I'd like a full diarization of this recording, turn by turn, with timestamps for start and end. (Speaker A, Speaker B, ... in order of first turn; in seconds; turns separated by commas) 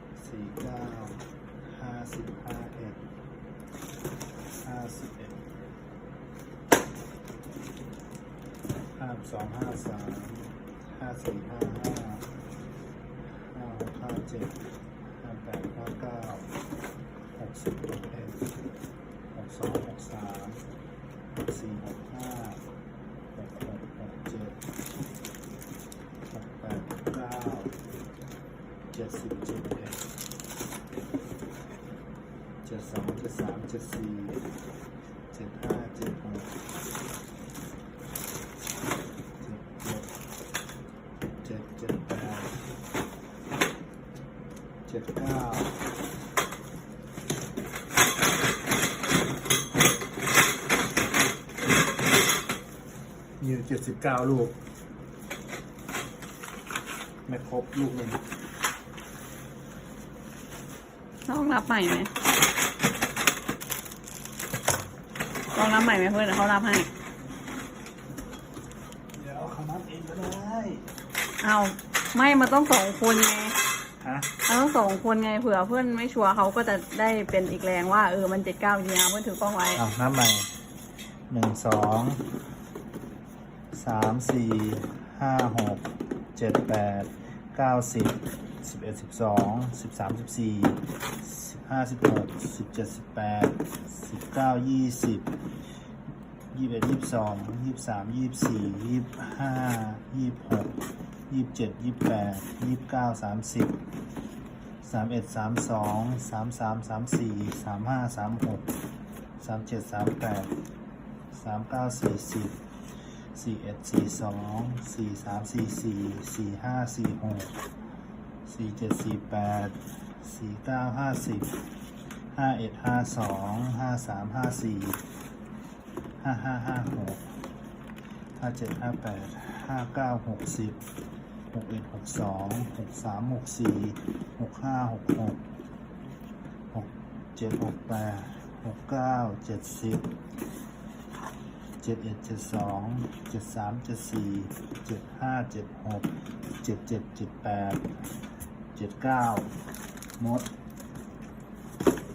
Speaker A: 0.1-3.0, Speaker A: 4.6-5.4, Speaker A: 8.9-12.3, Speaker A: 13.3-16.5, Speaker A: 17.3-18.4, Speaker A: 19.3-20.6, Speaker A: 21.4-22.6, Speaker A: 23.3-24.6, Speaker A: 26.3-27.8, Speaker A: 28.9-30.0, Speaker A: 32.6-34.4, Speaker A: 35.3-36.6, Speaker A: 39.4-40.1, Speaker A: 41.4-42.6, Speaker A: 44.9-45.8, Speaker A: 53.4-54.5, Speaker A: 57.2-58.2, Speaker B: 61.2-62.1, Speaker B: 65.5-66.9, Speaker A: 69.1-70.9, Speaker B: 71.4-73.5, Speaker A: 74.0-74.3, Speaker B: 74.5-79.8, Speaker A: 79.8-80.5, Speaker A: 81.3-82.2, Speaker A: 83.7-95.3, Speaker A: 96.5-100.8, Speaker A: 101.3-103.8, Speaker A: 104.8-108.7, Speaker A: 109.4-110.5, Speaker A: 111.3-112.6, Speaker A: 113.3-117.5, Speaker A: 118.4-121.6, Speaker A: 122.3-125.0, Speaker A: 126.2-127.3, Speaker A: 128.3-130.8, Speaker A: 131.5-135.4, Speaker A: 136.7-140.1, Speaker A: 141.8-146.1, Speaker A: 146.6-147.9, Speaker A: 148.7-149.5, Speaker A: 150.2-150.5